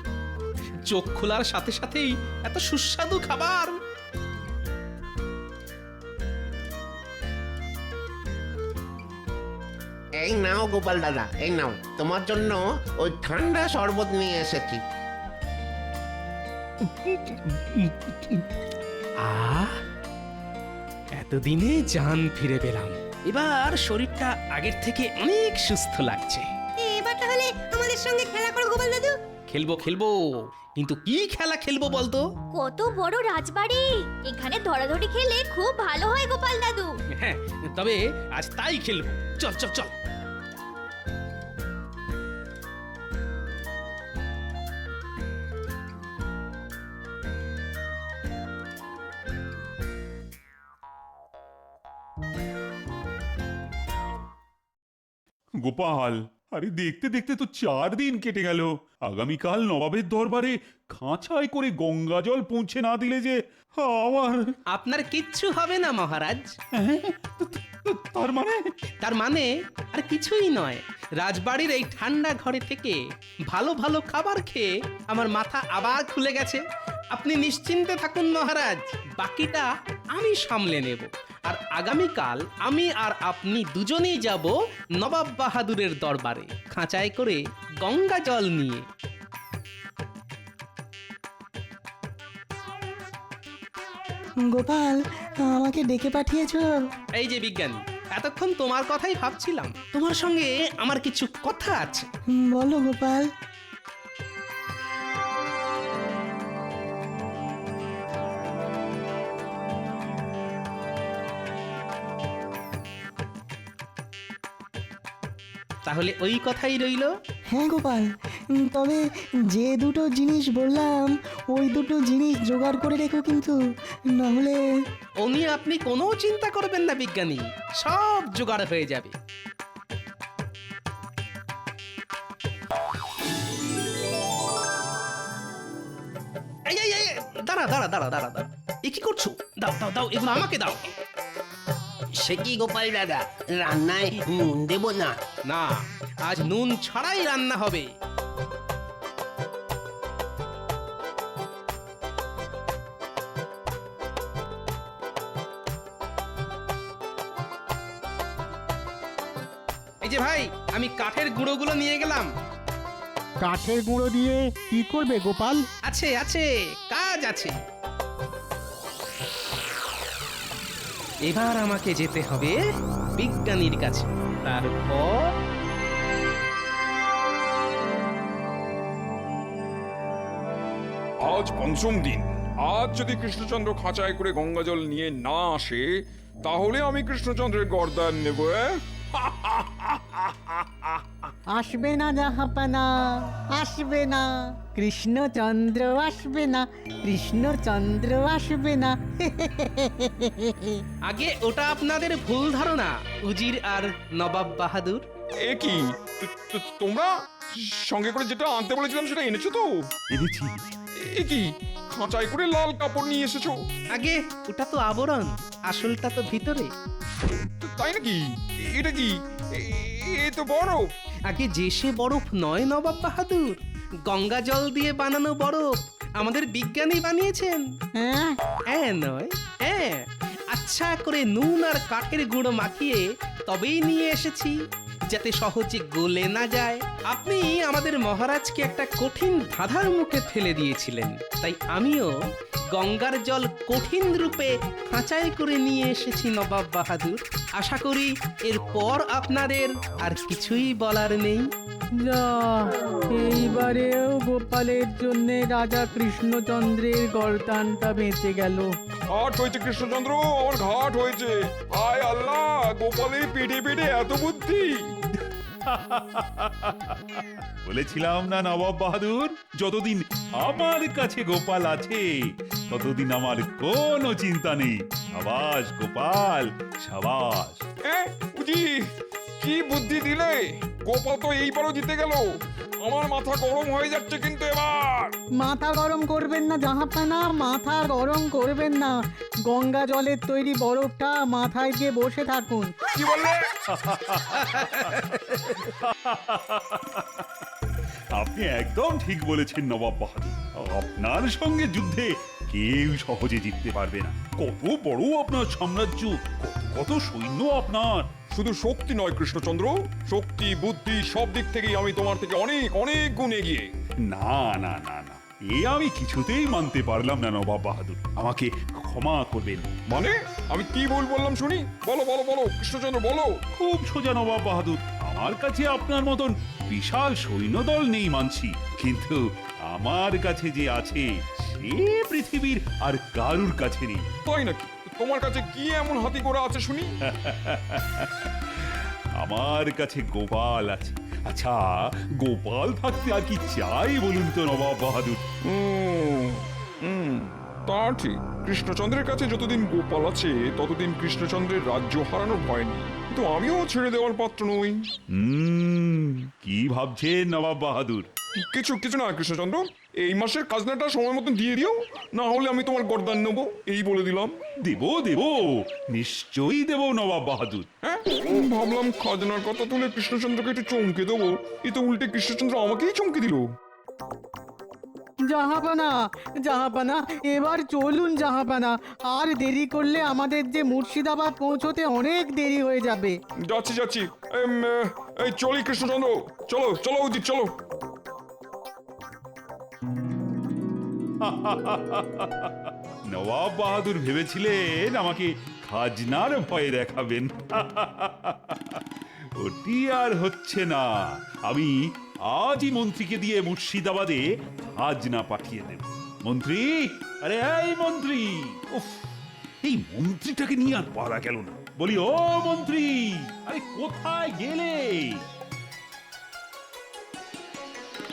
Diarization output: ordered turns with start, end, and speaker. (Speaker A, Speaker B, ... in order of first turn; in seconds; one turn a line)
Speaker A: 0.9-3.7
Speaker B: 10.2-14.8
Speaker A: 17.0-18.4
Speaker A: 19.2-19.7
Speaker A: 21.1-26.4
Speaker C: 26.8-29.1
Speaker A: 29.5-30.1
Speaker A: 30.8-32.2
Speaker D: 32.5-36.9
Speaker A: 37.2-39.9
Speaker E: 55.6-64.5
Speaker A: 64.7-66.5
Speaker E: 66.7-68.7
Speaker A: 69.0-73.0
Speaker A: 73.5-76.6
Speaker A: 77.1-88.8
Speaker F: 94.4-96.7
Speaker A: 97.1-102.1
Speaker F: 102.3-103.2
Speaker A: 115.8-117.1
Speaker F: 117.5-118.1
Speaker F: 118.6-119.0
Speaker F: 119.5-123.5
Speaker F: 124.2-124.6
Speaker A: 125.2-129.1
Speaker A: 136.7-140.9
Speaker B: 142.2-145.1
Speaker A: 145.5-147.8
Speaker A: 160.0-162.2
Speaker G: 163.4-165.6
Speaker A: 165.8-167.5
Speaker A: 171.2-172.6
Speaker A: 173.2-175.2
Speaker H: 181.2-185.8
Speaker H: 186.4-191.0
Speaker G: 191.5-192.9
Speaker G: 193.6-200.8
Speaker A: 201.1-205.0
Speaker H: 205.4-209.8
Speaker E: 210.1-210.6
Speaker H: 211.1-213.5
Speaker A: 213.9-216.7
Speaker H: 217.6-220.8
Speaker A: 221.3-225.7
Speaker A: 226.2-227.6
Speaker G: 228.0-228.3
Speaker A: 228.7-229.9
Speaker A: 230.5-234.5
Speaker A: 235.1-242.1
Speaker A: 242.7-251.4
Speaker G: 252.0-258.7
Speaker H: 259.1-264.7
Speaker E: 265.6-272.1
Speaker E: 272.7-277.6
Speaker H: 277.8-278.8
Speaker H: 279.4-282.3
Speaker H: 282.8-285.1
Speaker G: 285.4-292.7
Speaker H: 292.9-293.5
Speaker E: 293.7-297.2
Speaker E: 298.1-308.1
Speaker H: 308.3-313.6
Speaker E: 314.1-319.7
Speaker H: 319.9-323.4
Speaker E: 323.5-334.1
Speaker H: 334.2-336.9
Speaker E: 337.1-345.2
Speaker H: 345.4-354.8
Speaker E: 355.1-358.1
Speaker H: 358.4-364.3
Speaker E: 364.6-367.7
Speaker H: 367.8-373.4
Speaker G: 375.3-383.1
Speaker H: 383.5-387.5
Speaker E: 391.2-398.8
Speaker E: 399.4-400.9
Speaker E: 401.4-401.7
Speaker E: 402.3-409.1
Speaker E: 409.6-415.2